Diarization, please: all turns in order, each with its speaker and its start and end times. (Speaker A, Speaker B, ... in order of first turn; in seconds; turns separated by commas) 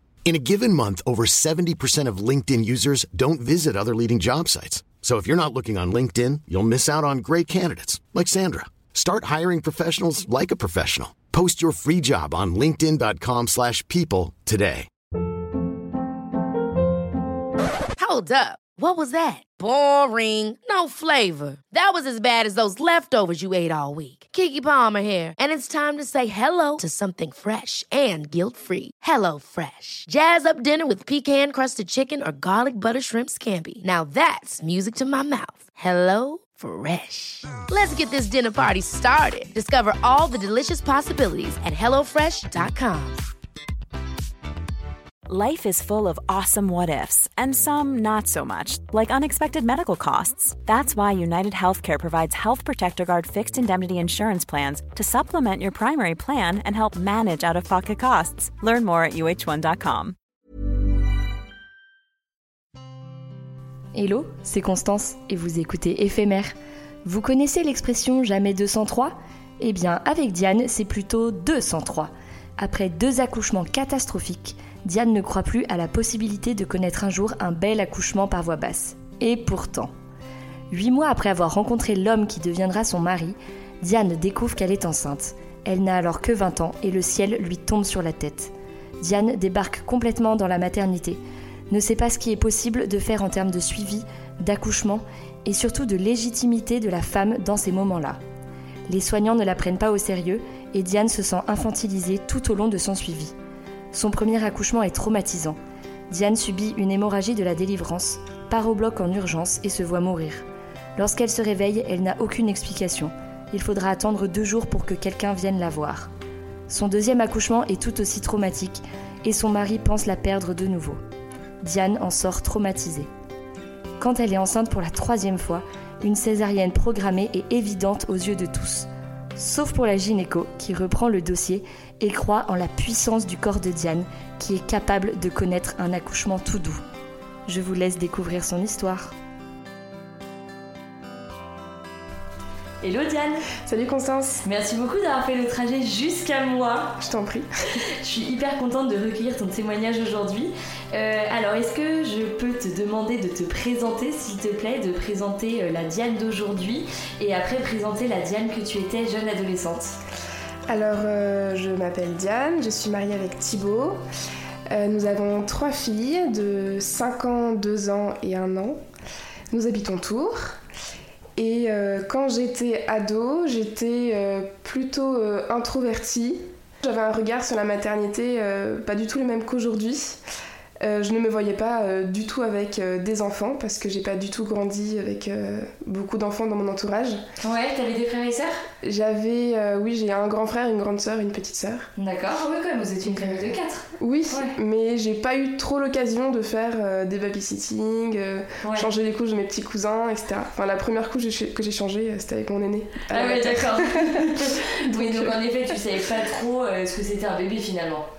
Speaker A: 0.2-14.9, Speaker B: 18.0-43.2, Speaker C: 45.3-60.1, Speaker D: 67.1-79.9, Speaker D: 80.7-98.2, Speaker D: 98.9-103.3, Speaker D: 103.9-110.4, Speaker D: 111.0-116.1, Speaker D: 116.7-121.0, Speaker D: 121.6-123.1, Speaker D: 124.0-136.8, Speaker D: 137.4-139.1, Speaker E: 142.8-143.4, Speaker F: 143.6-144.4, Speaker E: 144.4-147.0, Speaker F: 147.0-147.5, Speaker E: 148.0-160.0, Speaker F: 160.7-164.0, Speaker F: 164.7-168.8, Speaker F: 169.5-170.6, Speaker F: 171.4-180.2, Speaker F: 180.8-187.2, Speaker E: 187.4-188.6, Speaker F: 188.8-191.9, Speaker E: 192.0-194.6, Speaker F: 193.0-205.3, Speaker E: 198.6-198.9, Speaker E: 203.1-208.1